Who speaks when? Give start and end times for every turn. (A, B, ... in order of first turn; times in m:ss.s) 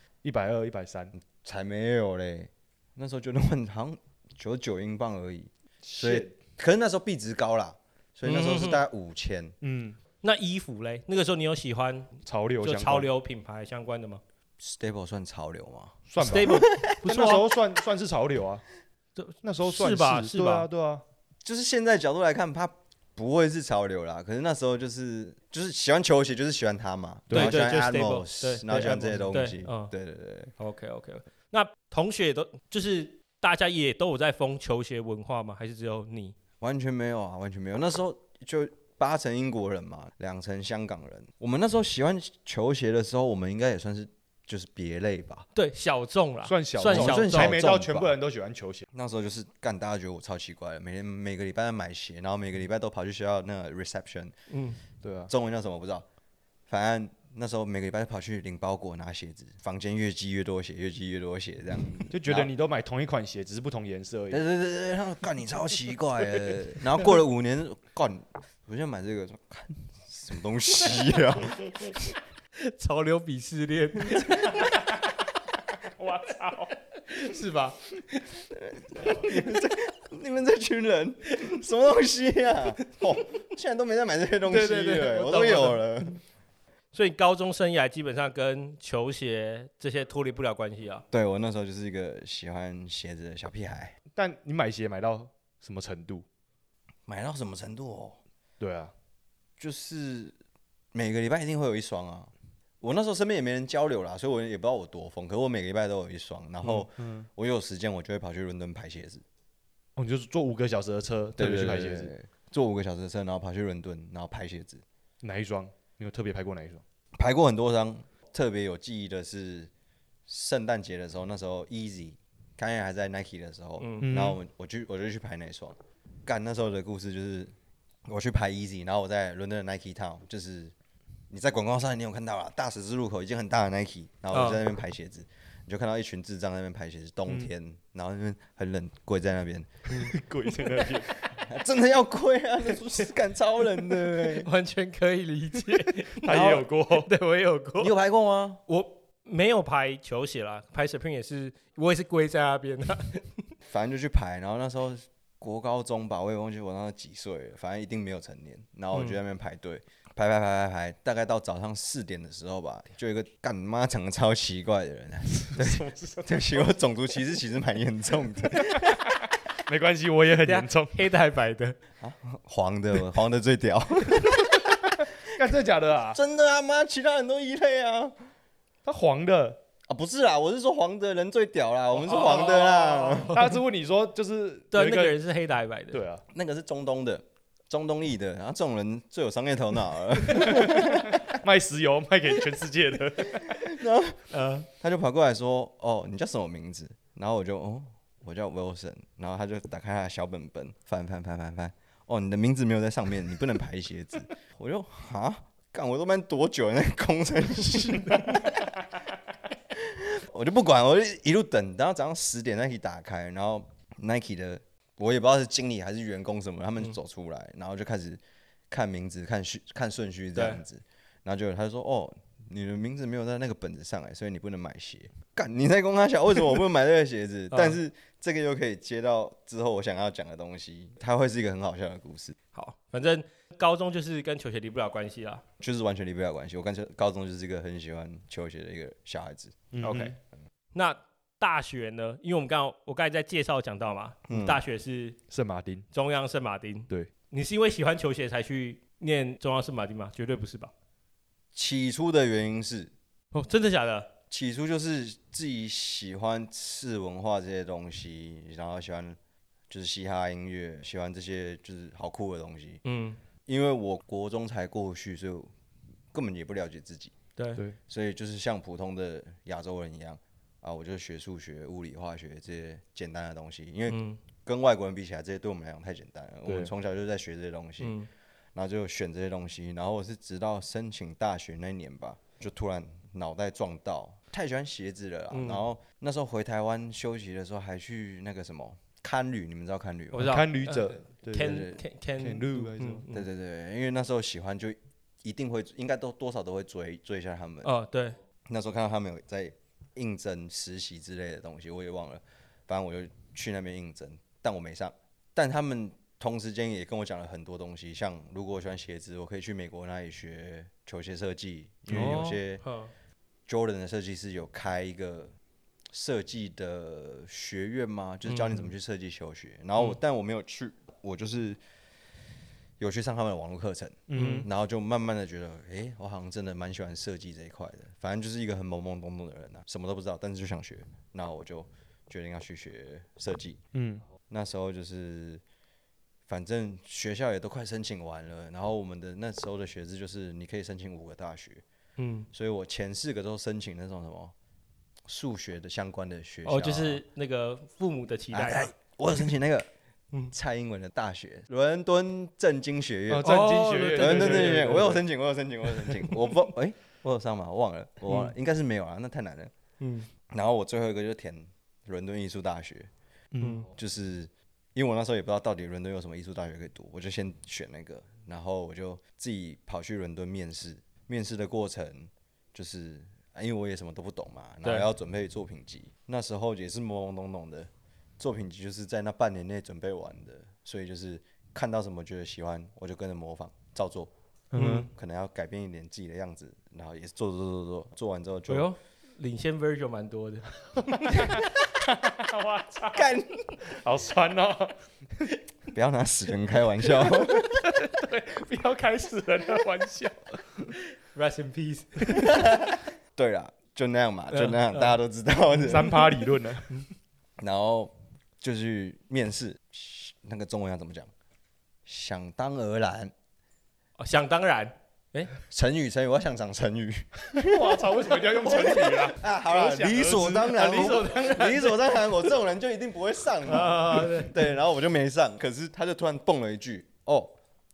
0:00.2-0:01.1 A
0:01.1-0:09.5 B
0:05.8-0:06.3 A
0:08.2-0:08.8 C
0:09.6-0:10.0 A
0:10.2-0:14.2 C
0:12.2-0:13.1 A
0:14.6-0:16.9 B
0:16.1-0:18.6 A
0:16.2-0:17.6 C
0:19.2-0:20.7 C
0:19.4-0:21.0 A
0:21.4-0:30.5 B
0:27.3-0:27.7 A
0:27.3-0:29.9 C
0:28.7-0:29.2 A
0:30.6-0:36.3 C
0:36.6-0:45.5 B
0:45.5-0:47.5 C
0:46.4-0:48.9 A
0:46.8-0:48.1 B
0:48.9-0:54.3 B
0:54.5-0:54.8 C
0:55.0-0:55.3 A
0:55.3-0:56.0 B
0:56.7-1:02.5 B
1:02.1-1:04.4 A
1:04.3-1:12.1 B
1:12.6-1:15.0 C
1:14.0-1:14.4 B
1:16.0-1:16.7 A
1:17.1-1:18.3 C
1:18.5-1:26.2 B
1:24.5-1:25.2 A
1:24.6-1:25.8 C
1:26.9-1:31.0 C
1:31.1-1:34.0 B
1:34.1-1:36.2 A
1:37.1-1:38.2 B
1:38.6-1:38.9 A
1:39.6-1:40.3 B
1:40.9-1:49.2 B
1:46.6-1:47.3 A
1:50.0-1:52.1 A
1:51.4-1:54.8 B
1:55.2-1:56.8 A
1:57.2-1:59.7 B
2:00.3-2:07.5 B
2:03.8-2:04.1 C
2:04.0-2:04.4 A
2:08.1-2:10.7 B
2:11.3-2:20.0 B
2:14.3-2:14.6 C
2:19.9-2:21.2 A
2:21.3-2:24.5 B
2:23.9-2:27.9 C
2:25.7-2:27.1 A
2:26.2-2:26.7 B
2:27.8-2:28.6 B
2:28.7-2:33.4 C
2:33.6-2:49.1 B
2:38.9-2:39.2 C
2:45.5-2:46.7 A
2:48.6-2:51.0 A
2:50.4-2:51.8 C
2:52.0-2:55.1 B
2:55.2-2:56.2 A
2:56.1-2:58.2 B
2:58.8-2:59.6 A
2:59.9-3:03.4 B
3:02.0-3:03.5 C
3:03.3-3:05.2 A
3:04.7-3:06.0 C
3:05.9-3:06.2 A
3:06.3-3:11.4 B
3:10.4-3:13.7 A
3:13.2-3:28.8 B
3:14.3-3:14.7 C
3:29.7-3:52.4 B
3:40.4-3:40.6 C
3:47.5-3:47.8 C
3:52.5-3:55.4 C
3:55.6-3:59.6 B
3:59.7-4:00.1 A
3:59.8-4:00.1 C
4:00.7-4:05.2 C
4:04.3-4:04.6 B
4:05.3-4:05.9 A
4:05.9-4:10.7 C
4:11.5-4:12.9 B
4:13.3-4:14.1 C
4:14.3-4:19.2 B
4:19.7-4:22.8 B
4:22.8-4:23.2 C
4:23.4-4:25.5 B
4:26.1-4:27.1 B
4:27.4-4:27.6 C
4:27.9-4:37.9 B
4:33.9-4:34.2 C
4:36.4-4:36.7 A
4:37.8-4:38.1 C
4:38.5-4:50.4 B
4:45.3-4:45.6 C
4:50.1-4:53.2 C
4:50.1-4:51.7 A
4:51.3-4:51.8 B
4:52.2-4:53.0 A
4:53.1-4:57.7 B
4:57.6-4:58.2 C
4:58.5-5:12.6 B
5:11.9-5:12.9 C
5:11.9-5:12.4 A
5:13.5-5:15.3 B
5:15.9-5:21.6 B
5:18.2-5:18.7 C
5:22.8-5:33.6 B
5:24.1-5:24.5 A
5:24.1-5:24.5 C
5:33.7-5:34.0 A
5:34.3-5:35.4 B
5:36.3-5:41.6 B
5:42.0-5:42.3 C
5:42.3-5:44.3 B
5:45.0-5:47.0 B
5:46.4-5:48.7 C
5:48.3-5:49.7 B
5:50.3-5:59.5 B
5:53.1-5:55.0 A
5:53.2-5:55.0 C
5:59.8-6:00.1 C
6:00.3-6:02.9 B
6:03.3-6:03.6 A
6:03.4-6:03.7 C
6:03.7-6:24.1 B
6:24.5-6:24.9 A
6:24.5-6:24.9 C
6:24.8-6:28.7 B
6:28.5-6:31.4 C
6:31.1-6:33.1 A
6:32.9-6:33.6 B
6:33.6-6:34.8 A
6:35.7-6:37.7 B
6:37.2-6:40.7 A
6:41.1-6:42.6 C
6:42.2-6:46.1 B
6:44.3-6:44.9 C
6:45.6-6:46.8 A
6:45.9-6:46.1 C
6:47.4-6:51.1 B
6:51.8-6:53.1 B
6:54.0-6:55.3 C
6:55.5-7:07.4 B
6:57.3-7:01.1 A
7:00.4-7:02.2 C
7:03.4-7:04.5 C